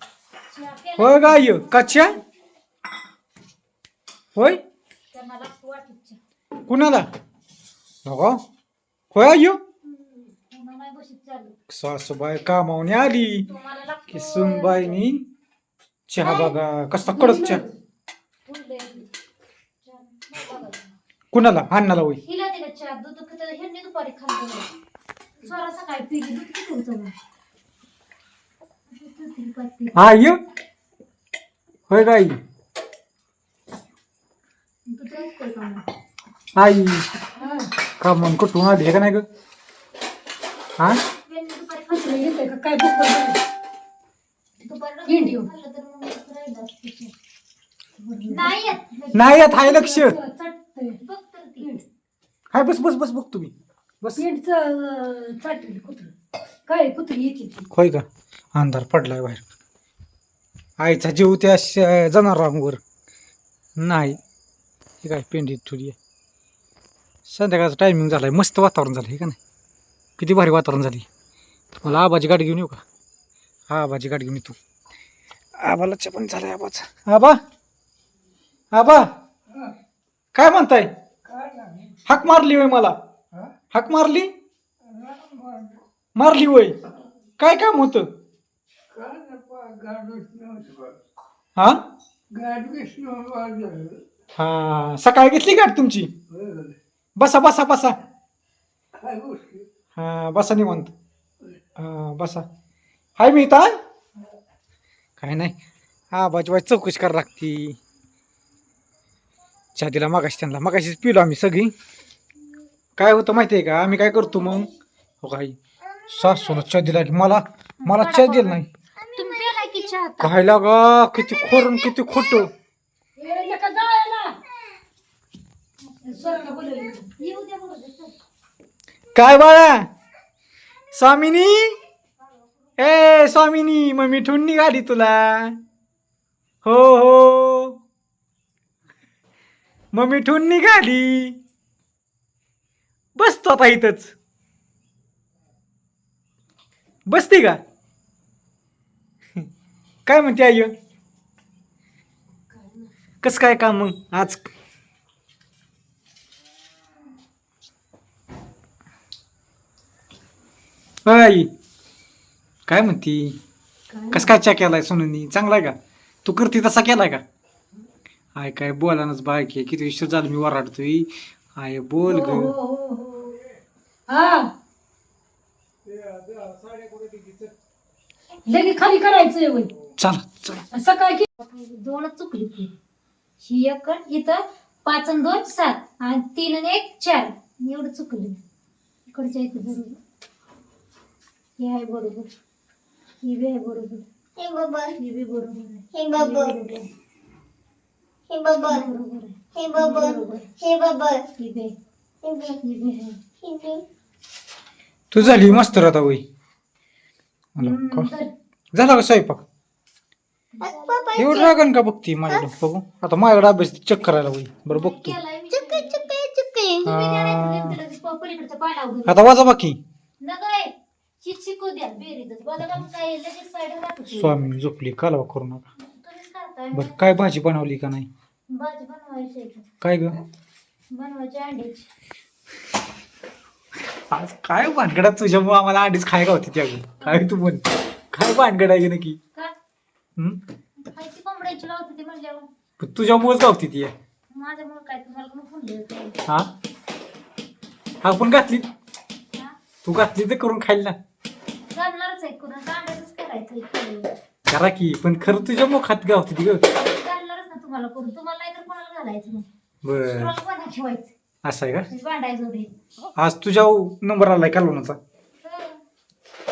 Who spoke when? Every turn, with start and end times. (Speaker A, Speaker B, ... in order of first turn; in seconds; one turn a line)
Speaker A: 0.5-2.2
Speaker B: 1.0-2.2
Speaker B: 4.3-4.6
Speaker A: 5.1-6.2
Speaker B: 6.7-7.1
Speaker B: 8.1-8.4
Speaker B: 9.1-9.6
Speaker A: 9.9-11.6
Speaker B: 11.7-13.5
Speaker A: 13.5-15.0
Speaker B: 14.1-15.3
Speaker B: 16.1-17.6
Speaker C: 17.1-17.7
Speaker A: 18.5-19.1
Speaker A: 19.8-20.9
Speaker B: 21.3-22.2
Speaker A: 22.2-24.7
Speaker A: 25.4-27.1
Speaker A: 28.9-30.0
Speaker B: 29.9-30.4
Speaker B: 31.9-32.3
Speaker A: 34.9-35.8
Speaker B: 36.5-37.1
Speaker C: 37.4-37.7
Speaker B: 38.0-39.2
Speaker B: 40.8-41.0
Speaker A: 41.2-42.4
Speaker C: 41.9-43.4
Speaker A: 44.6-47.1
Speaker C: 45.1-45.5
Speaker C: 48.0-48.6
Speaker A: 48.3-49.3
Speaker B: 49.1-50.2
Speaker C: 49.5-51.0
Speaker A: 51.0-51.7
Speaker B: 52.5-54.3
Speaker C: 54.2-56.1
Speaker C: 56.7-57.7
Speaker B: 57.7-59.5
Speaker B: 60.8-62.8
Speaker B: 63.8-64.2
Speaker B: 65.0-66.0
Speaker B: 67.3-69.4
Speaker B: 70.2-71.0
Speaker B: 71.8-72.8
Speaker B: 73.7-74.6
Speaker B: 75.6-77.4
Speaker B: 78.7-79.1
Speaker B: 80.3-80.9
Speaker B: 82.1-83.0
Speaker B: 83.7-84.3
Speaker C: 85.0-85.7
Speaker B: 86.2-86.8
Speaker B: 87.4-88.1
Speaker C: 89.0-90.5
Speaker B: 91.6-91.8
Speaker C: 92.3-93.6
Speaker B: 94.4-96.1
Speaker B: 97.2-98.0
Speaker B: 100.0-100.9
Speaker B: 101.8-102.5
Speaker B: 103.2-103.7
Speaker B: 105.2-105.5
Speaker B: 106.1-107.8
Speaker B: 109.8-111.7
Speaker B: 113.0-114.7
Speaker B: 115.2-115.6
Speaker B: 116.1-118.7
Speaker A: 117.8-118.6
Speaker A: 119.2-120.4
Speaker D: 119.2-119.9
Speaker B: 120.2-122.5
Speaker C: 123.2-124.4
Speaker A: 126.0-126.4
Speaker C: 126.0-127.1
Speaker A: 127.1-128.2
Speaker B: 129.1-129.9
Speaker B: 130.9-131.8
Speaker B: 132.8-135.6
Speaker B: 136.6-137.8
Speaker B: 139.9-141.4
Speaker B: 143.2-144.1
Speaker B: 147.1-147.6
Speaker B: 150.1-150.7
Speaker C: 152.5-152.9
Speaker B: 153.2-154.5
Speaker B: 161.1-161.5
Speaker B: 162.7-163.4
Speaker C: 163.9-164.3
Speaker B: 164.1-167.2
Speaker B: 168.4-172.6
Speaker C: 172.0-173.4
Speaker C: 174.1-174.5
Speaker C: 178.5-179.7
Speaker B: 180.0-180.7
Speaker C: 180.7-181.3
Speaker A: 181.4-182.7
Speaker A: 183.4-188.4
Speaker A: 189.1-190.0
Speaker A: 191.6-192.3
Speaker A: 193.2-194.1
Speaker D: 194.4-194.9
Speaker A: 194.9-196.9
Speaker D: 195.9-196.6
Speaker D: 198.3-198.8
Speaker A: 198.6-200.6
Speaker D: 199.6-201.3
Speaker A: 201.4-201.7
Speaker D: 202.2-202.6
Speaker A: 202.6-203.2
Speaker D: 203.4-203.8
Speaker B: 205.1-206.2
Speaker A: 205.2-205.7
Speaker B: 207.6-208.1
Speaker A: 207.6-208.3
Speaker B: 208.7-209.4
Speaker A: 210.5-211.5
Speaker D: 210.6-211.5
Speaker B: 211.2-215.2
Speaker A: 214.7-216.2
Speaker D: 215.5-216.8
Speaker A: 216.8-219.2
Speaker B: 216.8-217.8
Speaker B: 219.1-219.8
Speaker A: 220.2-224.4
Speaker B: 224.1-225.6
Speaker A: 225.8-227.0
Speaker B: 226.7-228.1
Speaker A: 228.5-229.7
Speaker B: 229.8-230.2
Speaker A: 230.9-231.9
Speaker B: 234.1-239.2
Speaker A: 237.0-237.3
Speaker A: 240.8-242.5
Speaker B: 242.8-243.9
Speaker A: 244.3-246.2
Speaker B: 248.0-248.7
Speaker B: 249.8-251.0
Speaker A: 251.7-254.1
Speaker B: 254.5-256.6
Speaker A: 255.2-255.5
Speaker A: 256.7-259.5
Speaker B: 259.8-260.3
Speaker A: 260.0-261.1
Speaker B: 261.4-261.9
Speaker A: 261.9-262.7
Speaker B: 263.2-265.0
Speaker A: 265.4-265.8